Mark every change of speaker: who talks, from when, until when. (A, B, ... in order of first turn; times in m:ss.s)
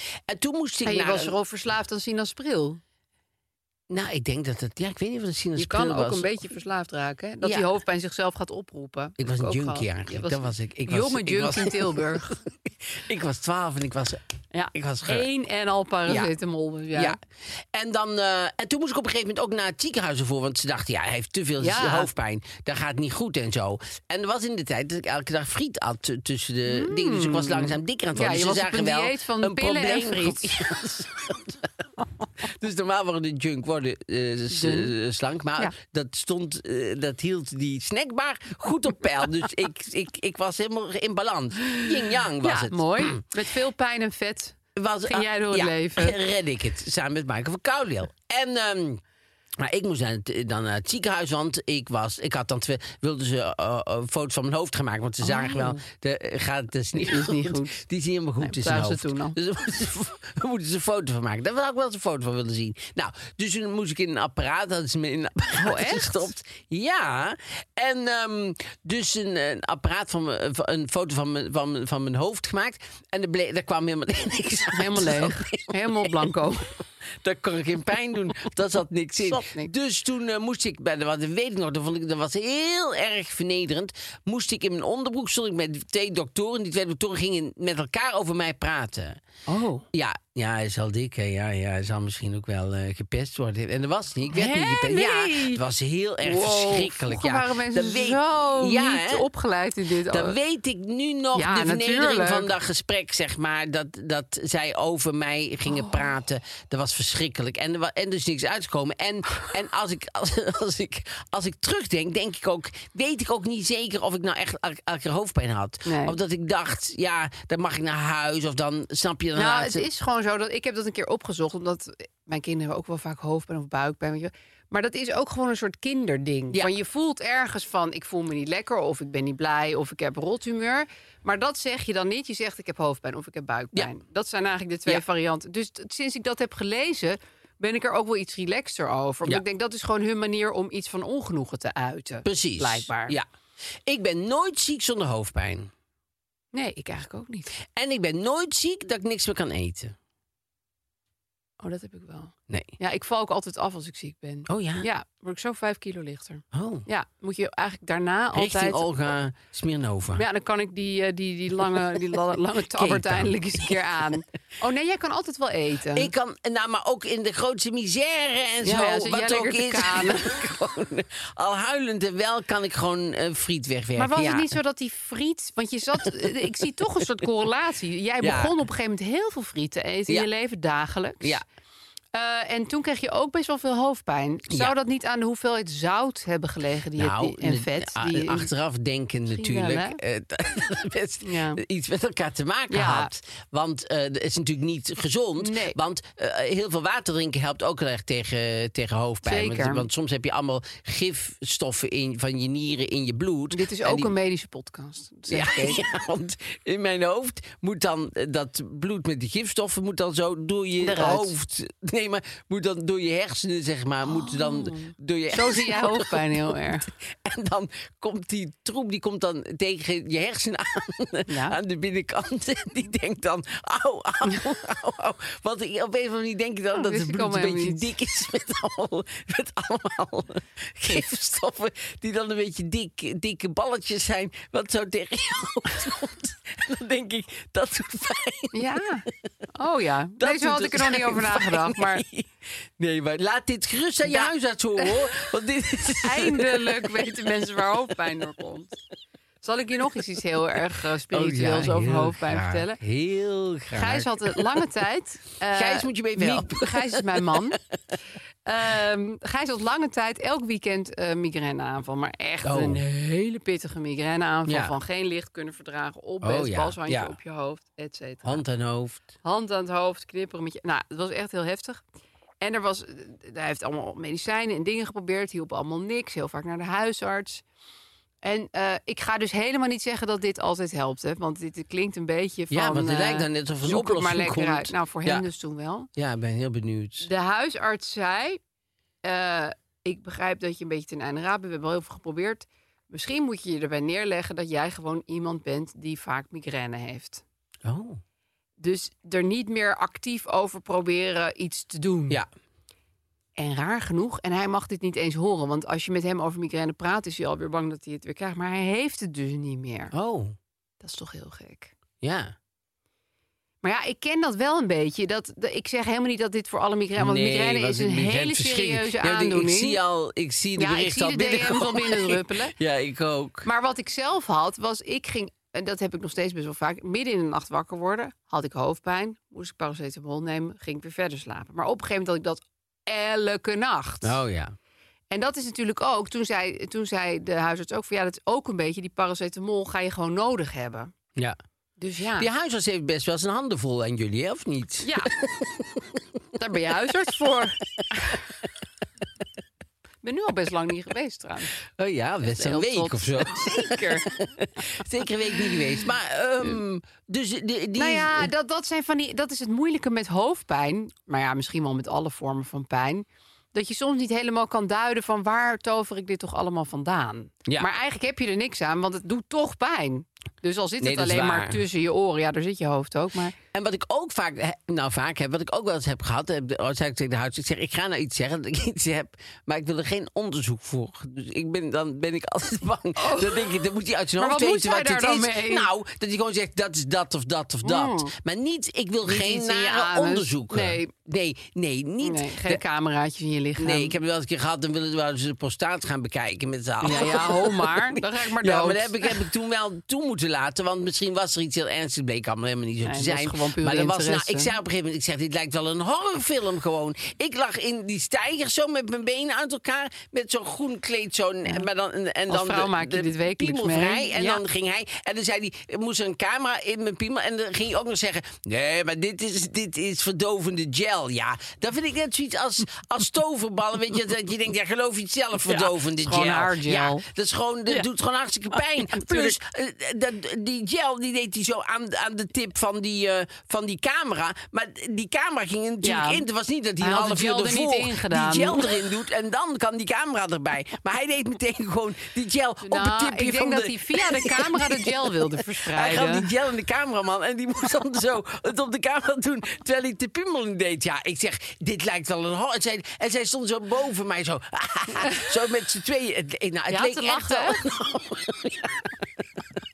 0:00.3-0:01.4 A
0:00.8-0:02.8 B
0:03.9-0:06.4 A
0:05.6-0:12.4 B
0:07.4-0:07.7 A
0:09.2-0:14.2 A
0:14.5-0:17.2 B
0:14.7-0:15.3 A
0:16.1-0:16.3 A
0:16.9-0:17.2 A
0:17.7-0:31.7 A
0:21.6-0:22.1 B
0:26.7-0:30.6 B
0:32.4-0:43.2 A
0:34.5-0:34.9 B
0:41.7-0:46.2 B
0:44.8-0:49.0 A
0:49.6-1:16.1 A
0:55.2-0:55.8 B
0:56.9-0:57.8 B
0:58.4-0:59.4 B
1:05.6-1:06.3 B
1:14.7-1:16.7 B
1:17.2-1:29.2 A
1:19.2-1:19.7 B
1:29.5-1:29.9 B
1:29.9-1:39.3 A
1:34.3-1:35.6 B
1:36.2-1:40.4 B
1:40.1-1:59.9 A
1:41.3-1:42.5 B
1:45.7-1:46.0 B
1:55.8-1:56.2 B
1:59.4-2:23.2 B
2:22.2-2:23.3 A
2:23.8-2:25.7 A
2:26.5-2:27.5 B
2:27.8-2:30.0 A
2:31.6-2:38.8 B
2:34.5-2:34.9 A
2:36.5-2:36.9 A
2:38.3-2:40.2 A
2:40.2-2:46.1 B
2:42.7-2:43.7 A
2:45.9-2:54.5 A
2:48.6-2:50.3 B
2:54.0-3:01.4 B
2:56.0-2:56.4 A
2:58.2-2:58.6 A
3:02.1-3:08.5 B
3:07.0-3:24.1 A
3:09.3-3:10.0 B
3:11.2-3:11.6 B
3:12.7-3:13.1 B
3:15.4-3:15.8 B
3:19.2-3:19.9 B
3:23.5-3:25.8 B
3:25.3-3:58.7 A
3:30.8-3:31.3 B
3:34.0-3:36.9 B
3:41.3-3:41.6 B
3:46.7-3:47.9 B
3:58.5-4:02.0 B
4:00.2-4:07.5 A
4:04.0-4:05.0 B
4:06.0-4:08.8 B
4:09.4-4:12.8 B
4:11.1-4:14.4 A
4:13.7-4:17.6 B
4:15.5-4:17.6 A
4:18.5-4:28.4 B
4:22.4-4:22.8 A
4:24.5-4:24.7 A
4:26.2-4:27.2 A
4:28.2-4:29.1 A
4:29.2-4:31.8 B
4:32.4-4:37.4 B
4:38.2-4:45.9 B
4:42.5-4:45.3 A
4:46.0-4:47.1 A
4:47.0-4:48.4 B
4:49.0-4:57.2 B
4:57.6-4:58.0 A
4:58.6-5:02.2 B
5:03.4-5:09.9 B
5:09.9-5:10.4 A
5:10.8-5:11.7 B
5:12.0-5:12.4 A
5:13.6-5:19.8 B
5:17.0-5:23.5 A
5:20.6-5:22.6 B
5:23.4-5:34.2 B
5:34.0-5:34.6 A
5:35.1-5:40.9 B
5:41.8-5:42.3 B
5:42.2-5:45.8 A
5:44.8-5:45.1 B
5:46.4-5:48.2 B
5:50.0-5:51.5 B
5:51.7-5:58.3 A
5:52.3-5:54.1 B
5:57.8-6:13.4 B
6:10.8-6:11.6 A
6:13.5-6:32.6 A
6:23.0-6:23.5 B
6:24.2-6:25.7 B
6:27.6-6:28.1 B
6:29.0-6:30.9 B
6:32.0-6:34.0 B
6:33.6-7:39.4 A
6:36.8-6:39.2 B
6:42.8-6:44.5 B
6:52.3-6:54.4 B
7:05.5-7:07.0 B
7:08.6-7:09.4 B
7:15.8-7:16.2 B
7:16.8-7:18.7 B
7:22.6-7:26.3 B
7:36.7-7:37.6 B